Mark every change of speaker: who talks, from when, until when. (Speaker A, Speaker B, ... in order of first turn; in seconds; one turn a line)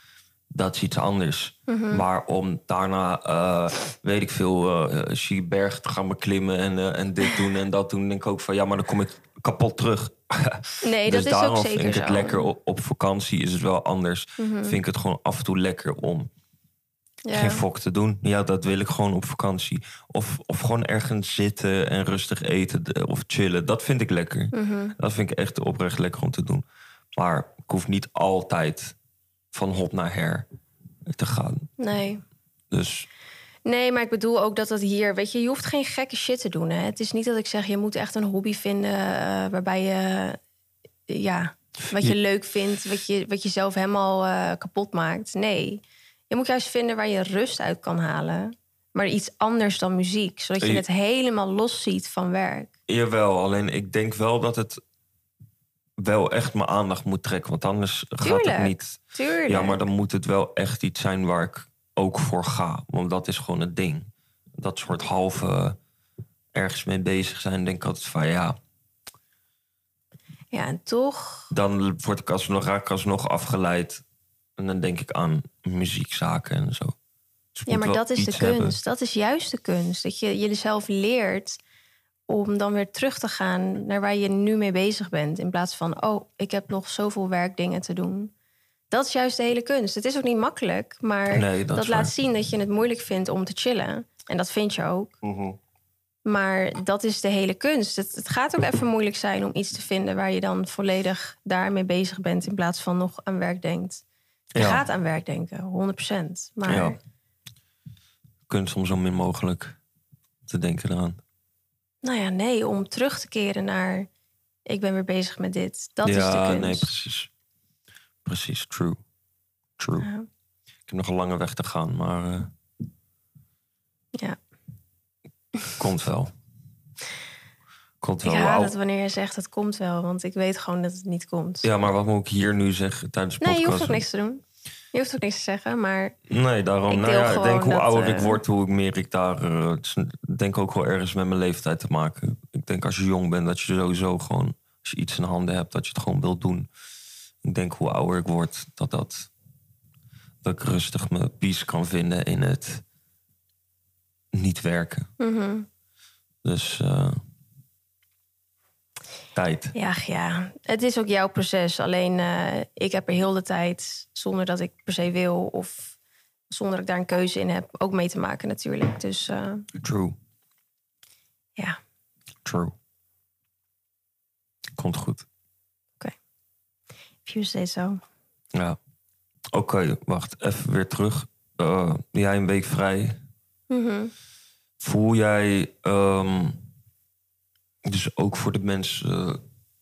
Speaker A: 0.5-16.3
Speaker B: 1.7-2.0
Speaker B: 10.8-12.5
Speaker B: 14.4-14.8
Speaker B: 17.2-17.6
Speaker A: 17.3-26.6
Speaker B: 24.5-24.9
Speaker A: 27.2-28.9
Speaker A: 29.5-30.5
Speaker A: 31.1-31.7
Speaker B: 31.8-32.2
Speaker A: 32.7-33.1
Speaker B: 33.7-40.4
Speaker B: 41.1-52.7
Speaker A: 52.9-54.8
Speaker A: 56.0-65.8
Speaker B: 58.2-59.9
Speaker A: 66.5-68.6
Speaker B: 70.5-71.5
Speaker A: 71.5-74.0
Speaker A: 74.6-77.0
Speaker A: 77.5-78.8
Speaker B: 77.7-81.6
Speaker B: 82.3-88.3
Speaker B: 88.9-95.2
Speaker A: 91.3-92.1
Speaker A: 95.2-95.6
Speaker B: 96.2-104.0
Speaker A: 104.5-104.8
Speaker B: 104.6-107.0
Speaker A: 106.7-107.0
Speaker A: 108.5-109.8
Speaker A: 110.5-111.2
Speaker B: 112.0-114.1
Speaker B: 114.7-116.9
Speaker A: 116.0-117.3
Speaker A: 118.2-119.0
Speaker A: 119.8-120.1
Speaker B: 120.0-120.3
Speaker A: 120.9-122.5
Speaker A: 125.8-126.3
Speaker A: 128.0-128.7
Speaker B: 128.2-131.7
Speaker A: 131.6-134.0
Speaker B: 133.4-136.2
Speaker A: 136.3-146.7
Speaker B: 136.9-138.4
Speaker A: 147.4-149.3
Speaker A: 150.4-152.8
Speaker A: 154.3-155.1
Speaker B: 155.2-155.7
Speaker A: 156.4-157.2
Speaker A: 159.3-159.7
Speaker B: 159.7-166.0
Speaker B: 166.5-169.7
Speaker A: 169.8-170.2
Speaker A: 172.4-172.8
Speaker A: 174.8-175.3
Speaker B: 177.2-178.0
Speaker A: 179.5-183.2
Speaker B: 183.7-184.1
Speaker A: 184.8-186.6
Speaker A: 187.8-189.4